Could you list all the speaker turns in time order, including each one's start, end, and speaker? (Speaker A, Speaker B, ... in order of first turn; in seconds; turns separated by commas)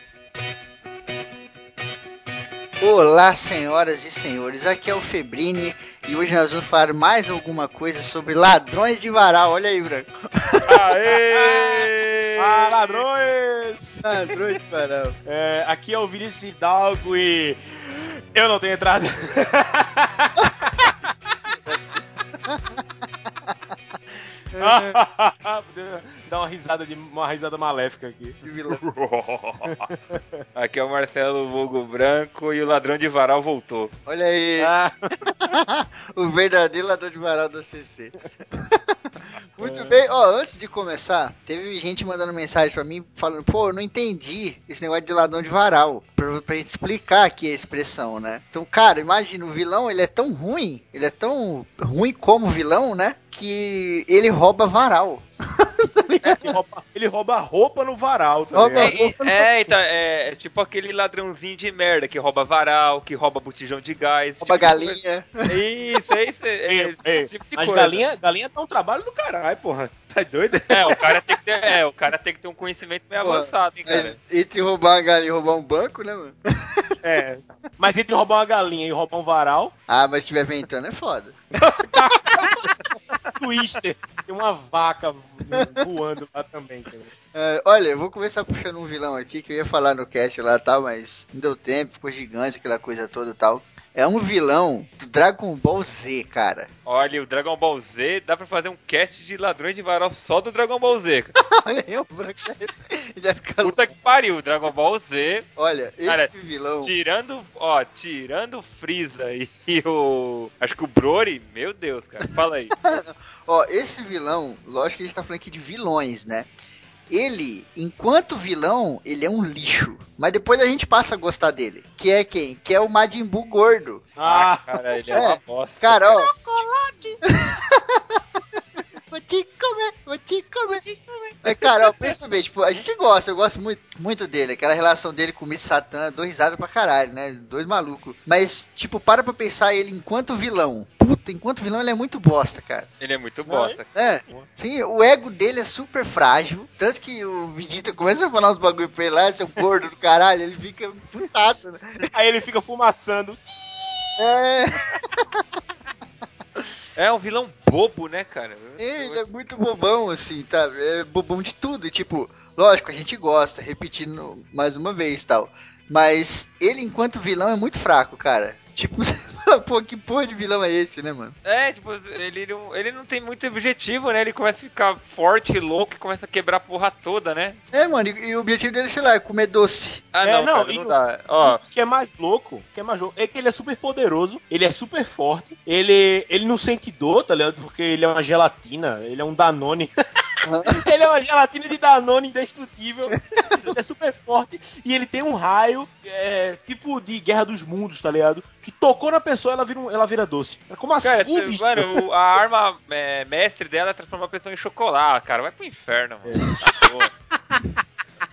Speaker A: 2.8-10.6, Speaker B: 10.7-13.0, Speaker C: 11.1-14.3, Speaker A: 14.0-15.2, Speaker C: 15.2-21.1, Speaker A: 21.5-21.9, Speaker A: 22.4-22.8, Speaker A: 24.5-25.0, Speaker C: 24.6-28.4, Speaker A: 28.4-28.8, Speaker B: 28.7-29.9, Speaker C: 29.6-30.4, Speaker B: 30.6-33.9, Speaker A: 34.1-34.7, Speaker C: 34.6-35.2, Speaker A: 35.5-38.9, Speaker A: 39.6-56.6, Speaker B: 39.6-40.0, Speaker C: 56.2-59.0, Speaker A: 58.5-59.5, Speaker B: 58.7-68.0, Speaker A: 64.4-65.5, Speaker C: 66.7-71.0, Speaker B: 70.7-74.2, Speaker A: 73.2-76.9, Speaker C: 77.0-79.7, Speaker A: 79.9-81.7, Speaker C: 81.6-82.6, Speaker C: 83.4-87.1, Speaker A: 87.3-96.7, Speaker B: 96.9-101.3, Speaker A: 101.5-104.2, Speaker B: 103.6-105.5, Speaker A: 105.6-106.9, Speaker B: 106.0-112.8, Speaker A: 112.8-116.5, Speaker A: 117.1-124.1, Speaker C: 124.2-125.2, Speaker B: 124.2-126.6, Speaker A: 125.1-126.3, Speaker C: 126.2-127.2, Speaker A: 127.3-128.0, Speaker A: 129.1-130.8, Speaker C: 130.9-132.1, Speaker A: 131.4-142.9, Speaker B: 143.0-143.9, Speaker C: 143.5-144.5, Speaker A: 143.9-152.1, Speaker C: 152.0-154.3, Speaker A: 154.2-155.2, Speaker B: 157.0-159.2, Speaker A: 158.8-171.3, Speaker B: 171.4-177.6, Speaker A: 177.7-180.0, Speaker B: 180.1-181.6, Speaker C: 180.2-189.9, Speaker A: 190.5-190.8, Speaker C: 190.7-202.0, Speaker A: 193.4-193.7, Speaker B: 201.0-207.1, Speaker C: 206.2-206.6